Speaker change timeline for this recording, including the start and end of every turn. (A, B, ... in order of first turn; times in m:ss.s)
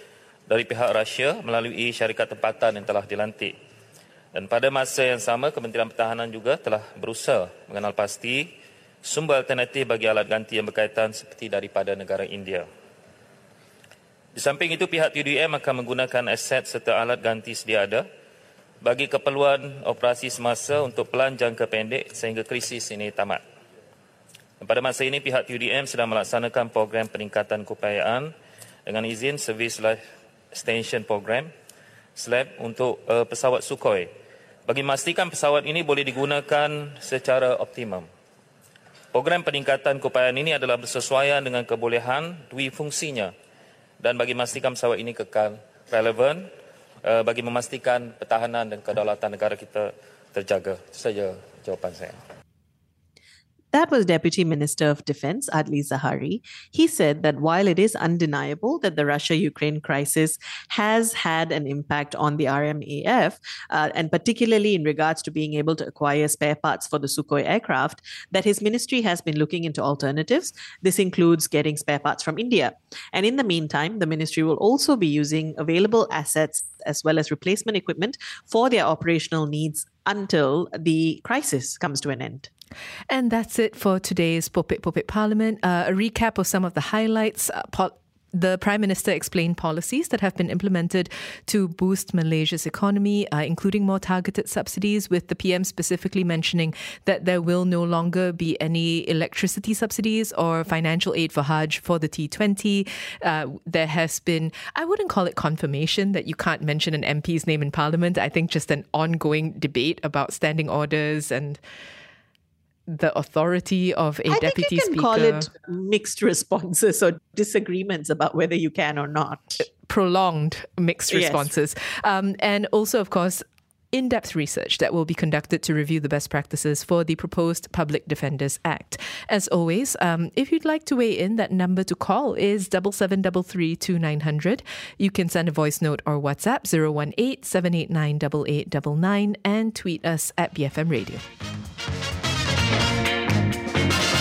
0:00.5-0:03.5 A
0:04.3-0:08.5 A
0:09.0-0:12.6 A
0:14.3-0:18.0 A
0:18.8-0:23.4 A
0:24.6-0:28.3 A
0:28.9-0:30.0 A
0:30.5-0:31.5 A
0:32.2-0:34.1 A
0:34.7-0:38.1 A
0:39.1-0:43.3 A
0:44.0-0:46.4 A
0:47.0-0:52.2 A
0:53.7-1:22.5 B
1:23.1-1:51.6 C
1:52.9-1:55.5 C
1:54.3-1:59.6 B
1:59.7-2:21.2 C
2:01.1-2:01.5 B